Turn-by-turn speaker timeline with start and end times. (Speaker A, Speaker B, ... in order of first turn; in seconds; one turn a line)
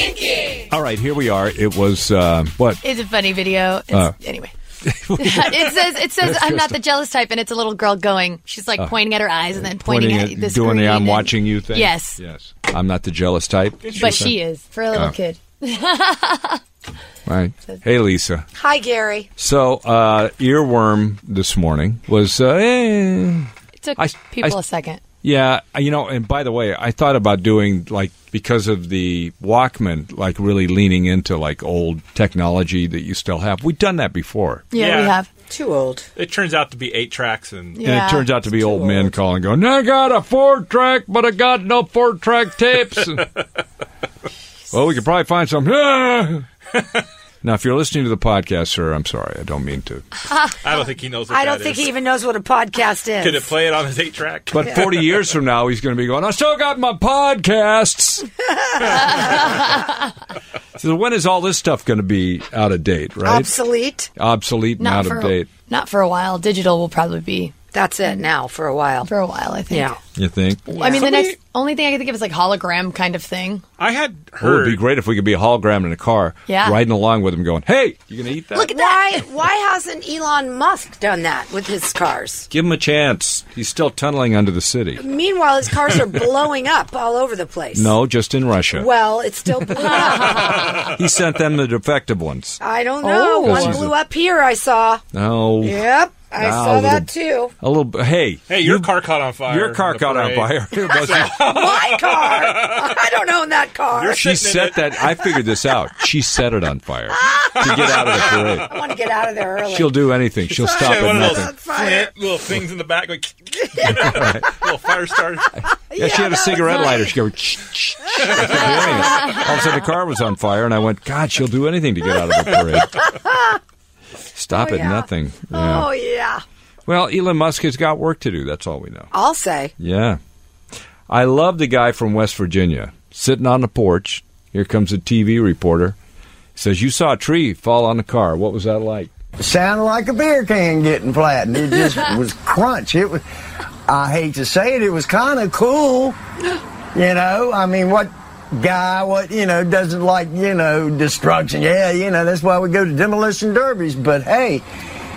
Speaker A: 0.7-2.8
Speaker B: 2.8-4.5
Speaker A: 4.8-6.8
Speaker B: 5.2-12.2
Speaker A: 9.6-14.3
Speaker C: 13.8-14.3
Speaker B: 13.9-16.6
Speaker A: 17.2-18.5
Speaker D: 18.6-19.3
Speaker A: 19.4-24.6
Speaker B: 23.8-25.0
Speaker A: 25.2-34.7
Speaker B: 34.7-35.3
Speaker C: 34.8-35.1
Speaker D: 35.5-36.1
Speaker C: 36.1-37.8
Speaker B: 37.8-38.3
Speaker A: 37.8-43.3
Speaker D: 38.5-39.1
Speaker A: 44.7-46.5
Speaker A: 47.4-50.0
Speaker C: 50.5-51.9
Speaker D: 51.3-53.5
Speaker C: 53.2-55.2
Speaker A: 54.5-58.3
Speaker D: 58.6-59.4
Speaker A: 60.8-63.5
Speaker D: 63.2-64.1
Speaker A: 64.2-65.5
Speaker B: 64.8-67.5
Speaker D: 67.7-69.1
Speaker B: 69.0-69.9
Speaker D: 69.7-70.0
Speaker A: 70.2-70.6
Speaker B: 70.7-73.6
Speaker D: 70.8-71.3
Speaker C: 70.9-71.3
Speaker C: 73.8-74.8
Speaker A: 74.4-78.8
Speaker B: 76.5-76.8
Speaker D: 78.5-82.5
Speaker A: 82.5-85.0
Speaker D: 85.0-87.9
Speaker A: 87.7-88.9
Speaker D: 88.7-90.7
Speaker A: 90.5-92.6
Speaker D: 92.6-95.0
Speaker B: 93.0-93.8
Speaker A: 93.4-93.9
Speaker A: 95.1-95.8
Speaker D: 95.6-97.5
Speaker A: 96.4-97.1
Speaker A: 97.6-98.9
Speaker C: 98.5-103.0
Speaker A: 99.4-101.4
Speaker D: 101.0-104.2
Speaker C: 103.9-105.0
Speaker A: 104.2-108.7
Speaker D: 107.2-110.0
Speaker C: 107.7-108.7
Speaker A: 109.6-111.5
Speaker D: 110.6-112.1
Speaker C: 110.6-115.5
Speaker A: 113.8-114.6
Speaker D: 115.9-117.1
Speaker A: 115.9-123.0
Speaker C: 118.2-118.9
Speaker D: 118.2-119.5
Speaker D: 123.0-123.6
Speaker A: 124.3-125.9
Speaker D: 124.5-126.4
Speaker A: 126.8-129.1
Speaker D: 129.1-129.7
Speaker A: 129.8-130.2
Speaker A: 131.1-135.9
Speaker A: 136.6-139.1
Speaker E: 139.4-143.2
Speaker E: 143.9-146.2
Speaker E: 146.9-154.6